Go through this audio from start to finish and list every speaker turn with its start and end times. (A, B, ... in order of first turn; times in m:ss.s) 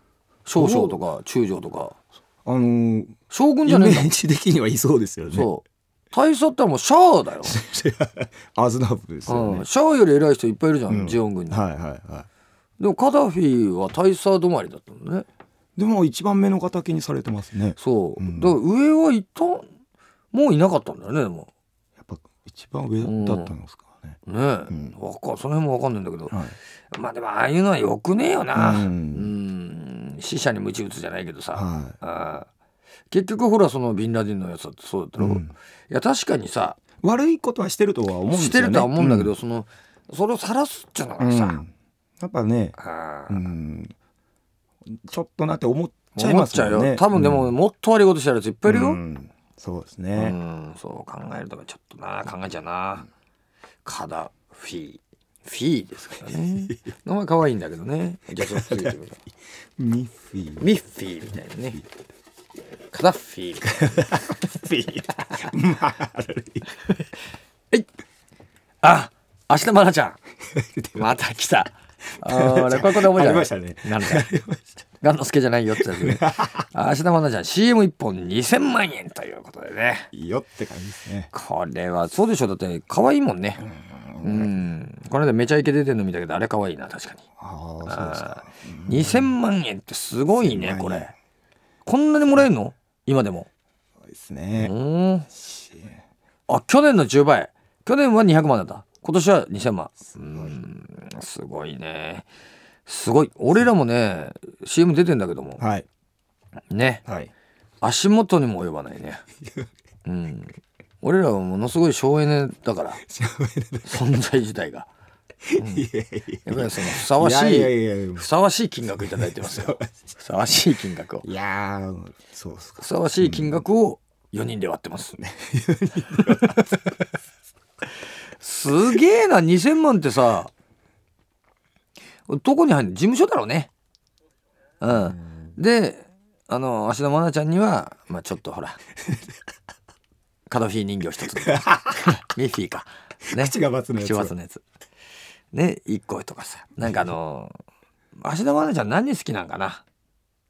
0:00.4-0:01.9 A
0:00.5-0:01.0 B
0:02.4-0:05.5 B
0:03.3-0:04.1 A
0:05.3-0:07.6 A
0:07.4-0:09.7 B
0:09.3-0:11.6 A
0:10.9-0:12.3 B
0:12.8-0:15.2 A
0:15.8-0:18.6 B
0:17.8-0:19.7 A
0:20.3-0:21.5 A
0:22.0-0:25.0 B
0:23.0-0:23.5 A
0:24.2-0:32.5 A
0:26.3-0:26.6 B
0:28.5-0:29.3 B
0:31.5-0:32.0 B
0:33.1-0:36.8 A
0:35.2-0:35.5 B
0:37.0-0:39.3 B
0:38.3-0:41.6 A
0:41.2-0:42.8 B
0:42.8-0:43.5 A
0:43.3-0:43.9 B
0:44.8-0:47.5 B
0:46.1-0:49.0 A
0:48.6-0:50.4 B
0:50.1-0:53.0 A
0:53.8-0:59.2 A
0:56.2-0:56.8 B
0:58.4-0:58.9 B
0:59.8-1:00.7 B
1:00.6-1:01.8 A
1:02.9-1:04.2 A
1:03.6-1:06.7 B
1:08.8-1:10.2 A
1:10.5-1:11.2 B
1:10.9-1:14.3 A
1:12.2-1:14.8 B
1:15.0-1:20.1 A
1:15.7-1:16.7 B
1:20.1-1:21.3 B
1:21.3-1:23.7 A
1:23.6-1:24.7 B
1:24.2-1:27.2 A
1:27.4-1:29.3 B
1:27.8-1:31.1 A
1:30.4-1:31.1 B
1:31.8-1:33.5 A
1:34.0-1:34.7 B
1:34.6-1:35.3 A
1:35.3-1:36.0 B
1:36.5-1:42.3 A
1:42.8-1:45.6 A
1:45.6-1:45.8 B
1:46.7-1:47.0 A
1:47.0-1:47.3 B
1:47.8-1:49.2 A
1:50.0-1:53.0 A
1:53.0-1:54.2 B
1:53.8-1:54.9 A
1:55.4-1:58.3 B
1:55.6-1:55.8 A
1:56.4-2:01.2 A
1:58.9-1:59.8 B
2:01.2-2:03.6 B
2:02.8-2:05.2 A
2:05.2-2:06.9 B
2:06.1-2:06.7 A
2:08.4-2:10.5 A
2:12.3-2:13.7 A
2:14.8-2:18.8 A
2:14.9-2:15.5 B
2:20.5-2:24.6 A
2:21.3-2:22.2 B
2:23.3-2:24.4 B
2:25.5-2:27.5 A
2:28.2-2:29.8 A